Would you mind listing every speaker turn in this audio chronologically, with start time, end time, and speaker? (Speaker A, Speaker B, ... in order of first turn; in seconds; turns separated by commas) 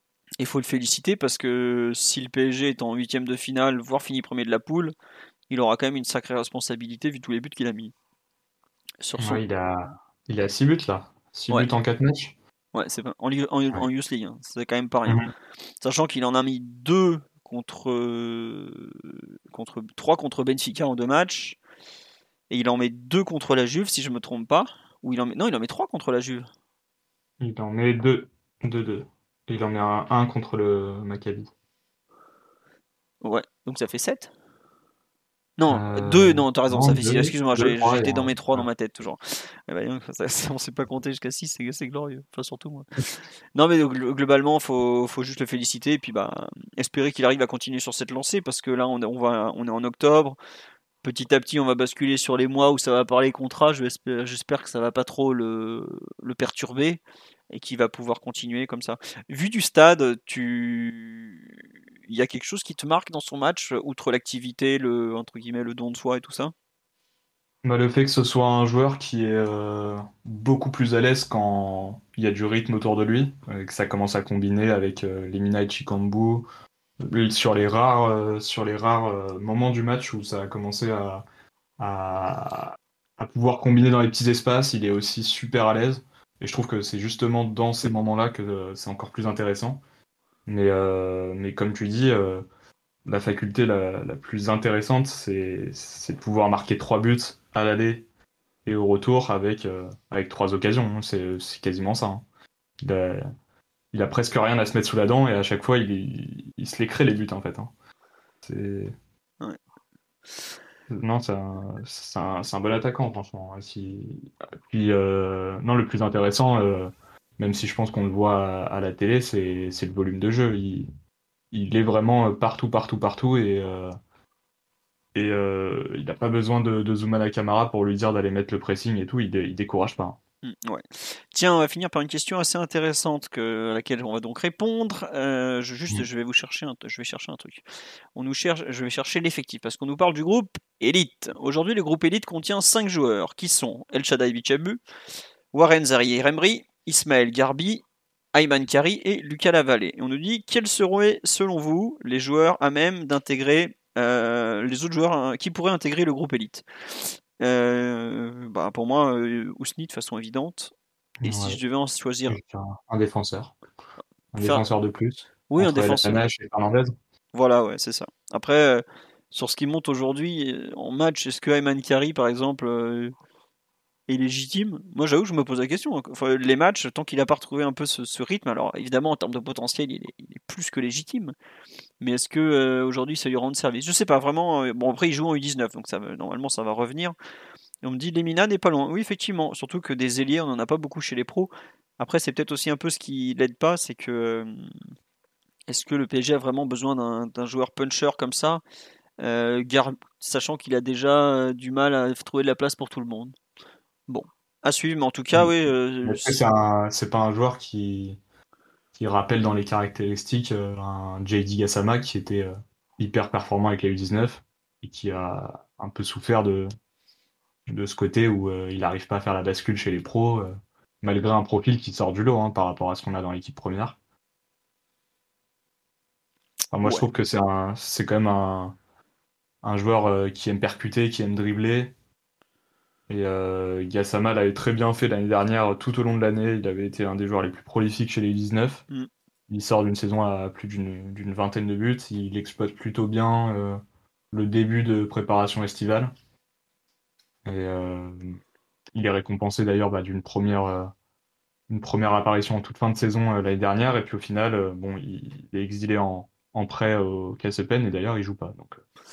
Speaker A: 0.4-4.9, Speaker A: 5.5-7.9, Speaker A: 9.0-9.4, Speaker B: 9.2-12.3, Speaker A: 12.7-15.2, Speaker A: 15.8-21.6, Speaker A: 22.5-26.5, Speaker B: 27.4-31.5, Speaker A: 33.2-34.3, Speaker A: 35.6-50.4, Speaker B: 35.7-38.6, Speaker A: 51.0-61.5, Speaker A: 62.1-66.5, Speaker B: 67.6-76.5, Speaker B: 77.0-81.2, Speaker B: 81.8-89.8, Speaker B: 90.5-92.4, Speaker B: 93.0-98.0, Speaker B: 98.7-102.2, Speaker B: 102.8-103.2, Speaker B: 103.9-107.7, Speaker B: 108.4-108.9, Speaker B: 110.9-120.9, Speaker B: 121.5-123.9, Speaker B: 125.1-130.2, Speaker A: 130.4-137.6, Speaker A: 138.1-144.8, Speaker A: 145.5-147.8, Speaker A: 148.3-160.7, Speaker B: 161.2-161.6, Speaker A: 161.2-162.4, Speaker B: 162.3-163.6, Speaker B: 164.3-166.9, Speaker A: 164.4-164.6, Speaker A: 165.5-166.3, Speaker A: 167.3-173.1, Speaker A: 174.1-181.3, Speaker A: 182.0-187.1, Speaker A: 187.8-194.7, Speaker A: 195.7-198.6, Speaker A: 199.2-203.3, Speaker A: 204.1-206.5, Speaker B: 206.0-208.2, Speaker B: 208.9-216.7, Speaker B: 217.7-224.0, Speaker B: 226.7-228.8, Speaker B: 229.6-231.9, Speaker B: 233.1-238.8, Speaker B: 239.5-243.8, Speaker B: 244.3-246.1, Speaker B: 247.4-248.4, Speaker B: 248.9-250.9, Speaker B: 251.7-258.8